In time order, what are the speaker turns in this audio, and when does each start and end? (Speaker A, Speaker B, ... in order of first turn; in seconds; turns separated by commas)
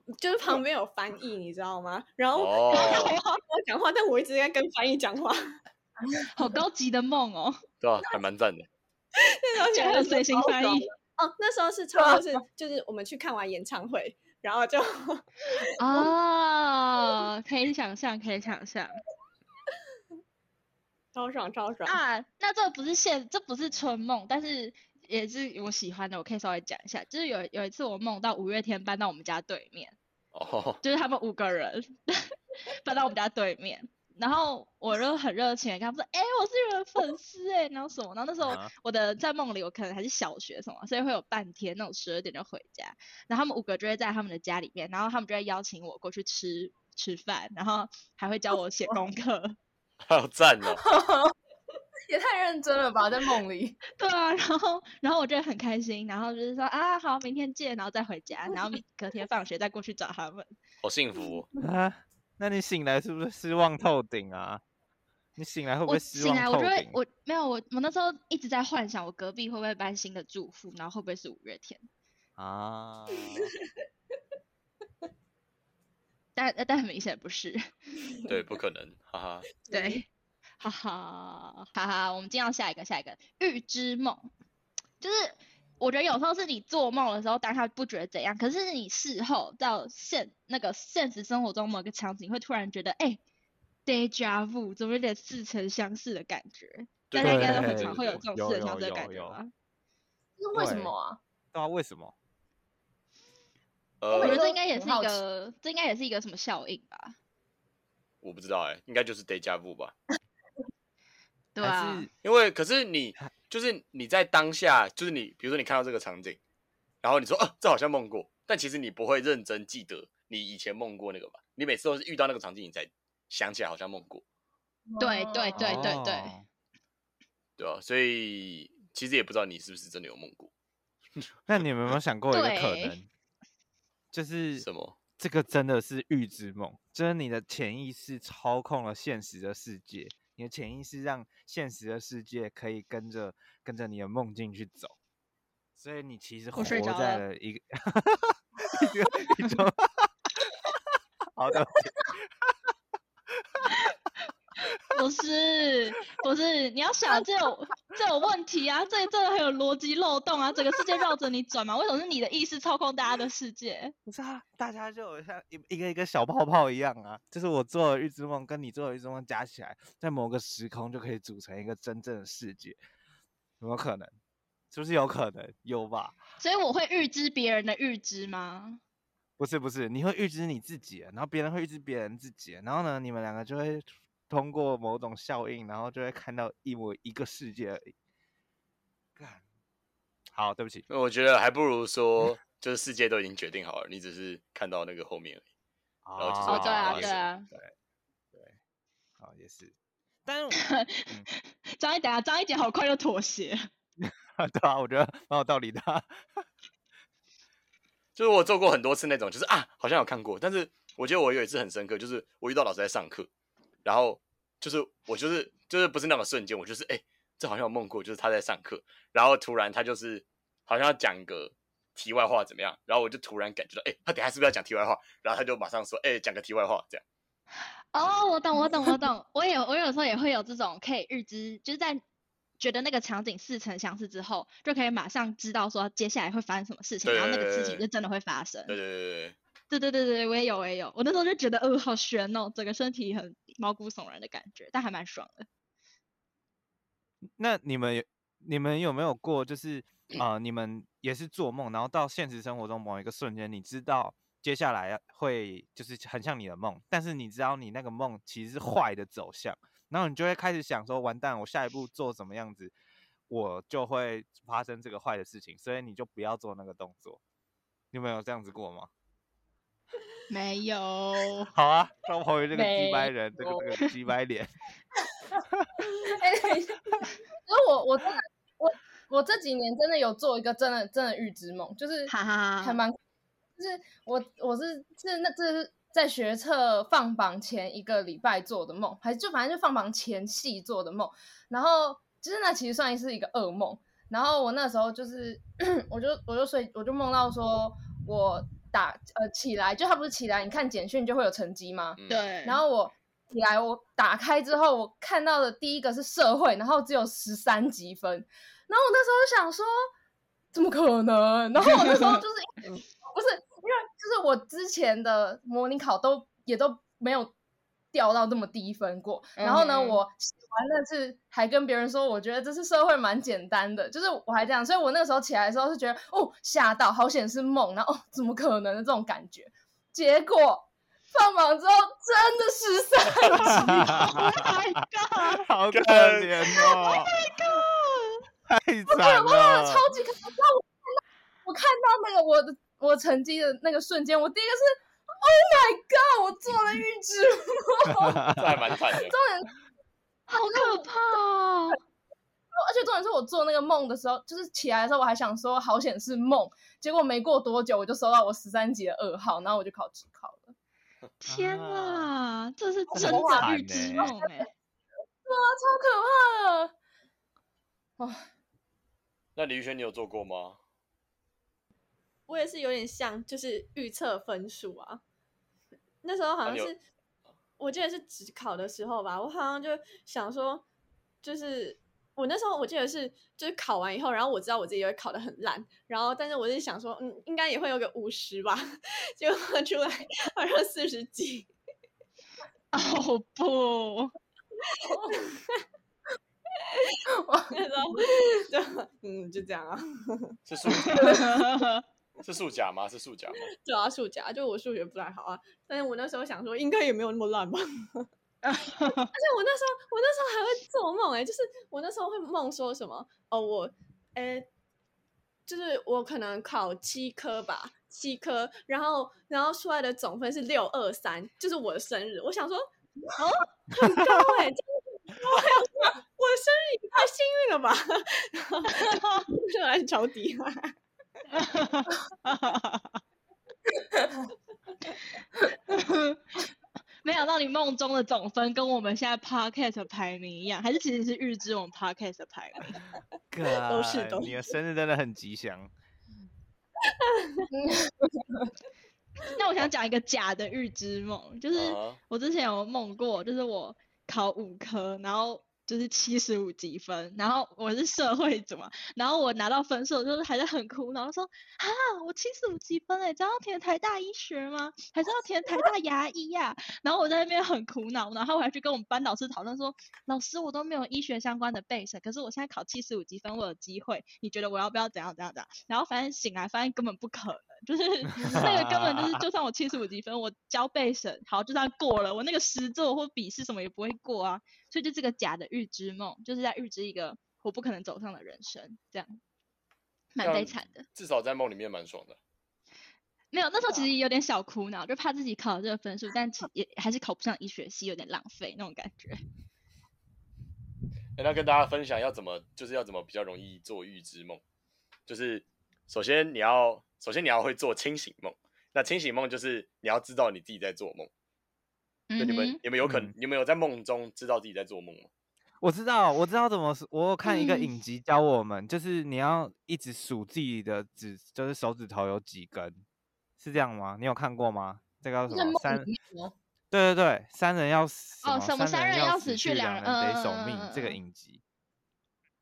Speaker A: 0.2-5.5, Speaker B: 2.3-3.2, Speaker C: 2.7-3.4, Speaker D: 6.2-6.5, Speaker C: 6.3-7.6, Speaker B: 7.8-8.7, Speaker A: 9.2-10.6, Speaker C: 9.6-10.9, Speaker D: 10.3-10.7, Speaker A: 11.2-15.7, Speaker D: 11.9-12.2, Speaker C: 15.8-19.0, Speaker A: 21.1-22.0, Speaker C: 21.9-29.9, Speaker B: 30.3-30.8, Speaker C: 30.8-49.5, Speaker E: 38.4-38.7, Speaker B: 50.1-50.8, Speaker D: 50.8-51.3, Speaker D: 52.1-53.8, Speaker C: 53.9-60.5, Speaker B: 60.8-61.5, Speaker E: 61.6-64.6, Speaker E: 65.4-67.0, Speaker C: 65.9-71.8, Speaker E: 72.4-73.5, Speaker C: 76.3-77.6, Speaker B: 78.2-79.5, Speaker A: 79.7-80.0, Speaker C: 79.7-80.1, Speaker C: 80.6-84.3, Speaker C: 85.0-93.2, Speaker C: 93.8-99.5, Speaker B: 97.1-98.2, Speaker E: 97.2-99.4, Speaker D: 100.4-101.2, Speaker E: 100.5-100.9, Speaker E: 101.5-102.1, Speaker B: 104.0-104.4, Speaker D: 104.1-105.2, Speaker C: 104.1-107.1, Speaker B: 108.2-109.9, Speaker C: 111.5-112.1, Speaker E: 111.6-112.1, Speaker B: 112.2-116.4, Speaker B: 117.0-124.2, Speaker D: 124.9-126.0, Speaker C: 125.0-126.3, Speaker E: 125.6-126.4, Speaker B: 127.6-130.5, Speaker E: 131.5-133.1, Speaker C: 132.3-132.9, Speaker E: 134.1-134.7, Speaker B: 134.6-135.0, Speaker E: 135.2-144.9, Speaker E: 145.8-150.1, Speaker C: 146.5-147.2, Speaker E: 151.3-152.5, Speaker E: 153.4-153.7, Speaker C: 153.7-153.9, Speaker C: 154.9-163.9, Speaker E: 164.1-172.8, Speaker E: 173.6-174.1, Speaker E: 174.7-176.2, Speaker C: 176.4-178.8, Speaker E: 179.4-187.9, Speaker E: 189.2-189.4, Speaker E: 190.3-190.8, Speaker B: 190.9-195.4, Speaker E: 196.0-197.7, Speaker B: 196.2-197.2, Speaker C: 196.4-197.5, Speaker E: 199.2-199.7, Speaker E: 200.2-200.6, Speaker C: 200.5-203.7, Speaker E: 204.0-206.2, Speaker B: 208.2-213.3, Speaker B: 213.8-227.0, Speaker C: 227.9-232.0, Speaker C: 232.6-238.8, Speaker B: 237.0-237.8, Speaker B: 238.7-239.3, Speaker C: 239.7-245.5, Speaker E: 247.4-262.7, Speaker E: 263.3-267.2, Speaker E: 267.9-268.9, Speaker C: 270.3-271.5, Speaker E: 271.5-274.5, Speaker D: 272.5-273.6, Speaker D: 275.3-283.0, Speaker C: 282.1-282.8, Speaker D: 283.6-309.7, Speaker B: 301.9-302.2, Speaker C: 302.1-302.6, Speaker D: 310.5-317.3, Speaker C: 311.6-312.2, Speaker D: 317.9-334.2, Speaker C: 319.4-320.0, Speaker C: 333.3-335.4, Speaker E: 333.3-334.5, Speaker E: 335.2-337.1, Speaker B: 335.7-336.4, Speaker C: 336.6-338.2, Speaker E: 338.5-339.8, Speaker D: 338.9-340.7, Speaker D: 341.4-349.6, Speaker E: 347.9-348.5, Speaker B: 348.3-349.1, Speaker C: 350.3-351.8, Speaker D: 350.5-350.9, Speaker D: 352.6-360.5, Speaker C: 361.2-364.5, Speaker E: 361.3-362.1, Speaker D: 362.9-364.4, Speaker E: 362.9-364.1, Speaker D: 365.2-366.7, Speaker D: 368.0-368.2, Speaker B: 369.4-370.6, Speaker A: 372.3-375.0, Speaker A: 376.0-376.8, Speaker B: 376.4-376.7, Speaker A: 377.6-380.6, Speaker A: 381.2-391.5, Speaker C: 392.7-394.1, Speaker A: 394.7-395.6, Speaker D: 394.9-395.2, Speaker A: 396.6-397.0, Speaker D: 397.2-398.0, Speaker A: 397.5-400.4, Speaker B: 400.5-401.2, Speaker C: 400.7-401.8, Speaker D: 400.9-401.4, Speaker B: 402.2-403.5, Speaker A: 403.6-408.1, Speaker C: 408.4-409.1, Speaker A: 408.9-414.5, Speaker A: 415.5-422.6, Speaker C: 423.2-423.5, Speaker A: 423.7-430.7, Speaker E: 423.9-424.1, Speaker C: 428.7-429.3, Speaker C: 431.3-433.0, Speaker C: 435.7-436.2, Speaker C: 437.0-442.8, Speaker E: 443.3-445.7, Speaker A: 443.5-444.5, Speaker A: 446.8-447.5, Speaker D: 447.5-448.5, Speaker C: 449.2-489.2, Speaker B: 451.5-452.0, Speaker E: 478.1-479.2, Speaker C: 490.1-490.9, Speaker B: 490.2-492.2, Speaker C: 493.3-499.2, Speaker B: 501.2-504.4, Speaker B: 505.1-511.1, Speaker C: 512.1-512.6, Speaker B: 512.2-515.1, Speaker E: 512.8-513.1, Speaker E: 515.6-522.8, Speaker C: 517.2-517.7, Speaker E: 523.4-525.9, Speaker D: 525.3-526.3, Speaker E: 526.7-531.4, Speaker C: 528.2-531.0